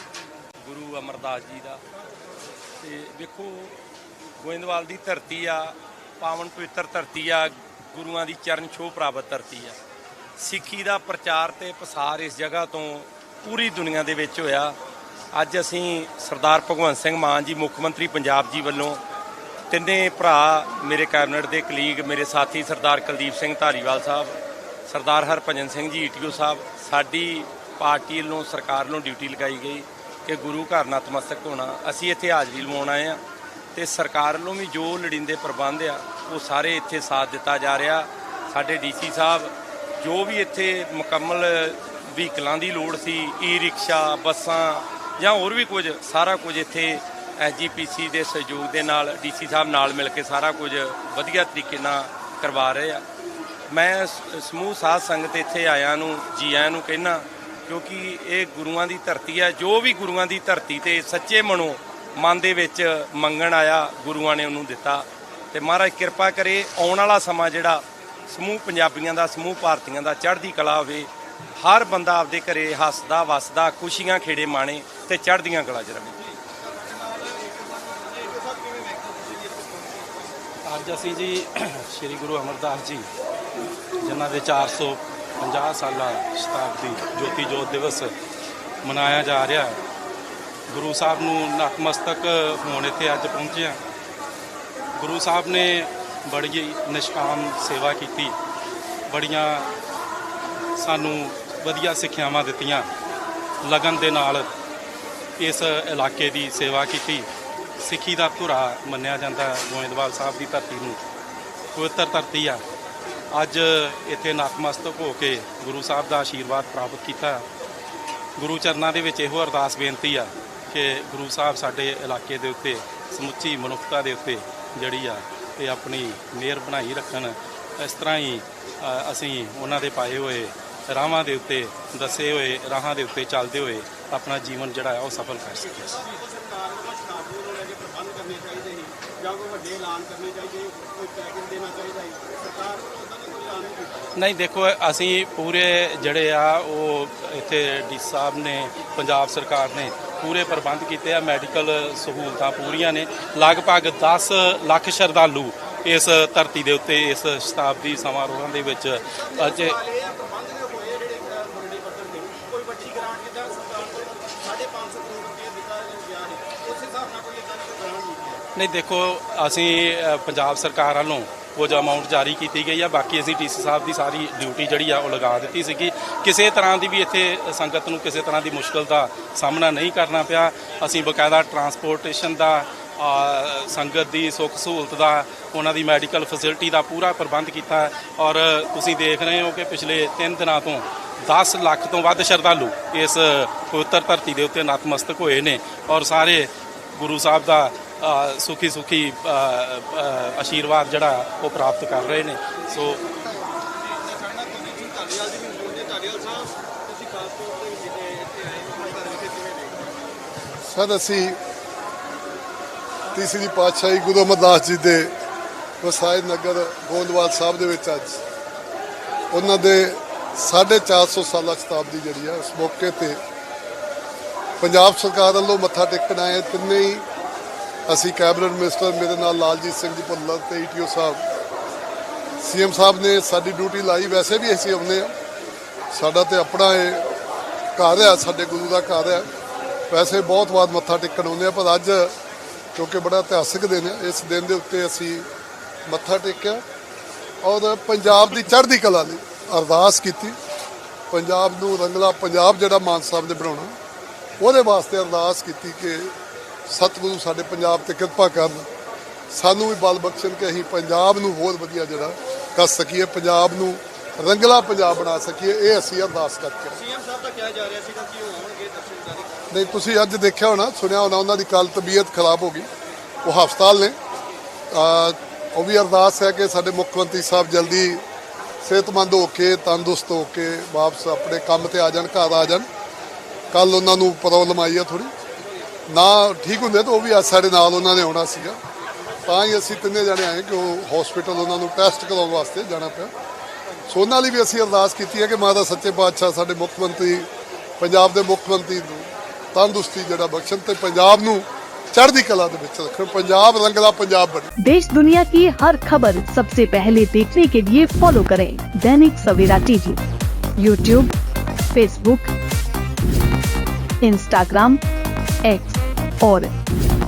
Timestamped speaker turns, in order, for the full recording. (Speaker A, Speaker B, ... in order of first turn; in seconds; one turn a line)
Speaker A: 0.6-1.8
Speaker A: 2.8-3.7
Speaker A: 4.4-9.8
Speaker A: 10.4-14.8
Speaker A: 15.3-19.0
Speaker A: 19.7-33.2
Speaker A: 33.7-53.0
Speaker A: 53.7-76.2
Speaker B: 76.7-80.3
Speaker C: 80.6-83.1
Speaker C: 84.0-88.1
Speaker C: 88.8-89.8
Speaker C: 90.7-93.8
Speaker C: 95.0-98.3
Speaker C: 99.1-99.7
Speaker C: 100.8-102.9
Speaker C: 103.6-104.5
Speaker C: 105.4-107.3
Speaker C: 107.8-111.0
Speaker C: 111.7-112.6
Speaker C: 113.3-117.4
Speaker C: 118.4-136.0
Speaker B: 135.6-144.1
Speaker C: 144.1-159.8
Speaker B: 159.1-168.4
Speaker C: 168.6-203.0
Speaker B: 203.7-209.9
Speaker D: 210.7-211.4
Speaker D: 213.1-215.1
Speaker D: 215.8-218.2
Speaker D: 219.3-223.2
Speaker D: 224.6-227.0
Speaker D: 227.9-231.2
Speaker D: 232.4-235.1
Speaker D: 235.9-237.1
Speaker D: 237.8-239.3
Speaker D: 239.9-242.1
Speaker D: 242.7-245.3
Speaker D: 245.9-246.6
Speaker D: 247.4-250.4
Speaker D: 251.1-253.7
Speaker D: 254.4-256.1
Speaker D: 256.7-258.7
Speaker D: 259.3-266.8
Speaker B: 266.7-269.5
Speaker D: 269.5-272.7
Speaker D: 273.2-274.0
Speaker D: 274.7-278.0
Speaker D: 278.6-282.7
Speaker D: 283.5-285.1
Speaker D: 285.9-288.6
Speaker D: 289.2-293.1
Speaker D: 293.9-297.3
Speaker D: 297.8-304.5
Speaker E: 304.6-310.0
Speaker E: 310.6-311.1
Speaker E: 311.7-312.3
Speaker E: 314.0-314.8
Speaker E: 315.4-316.5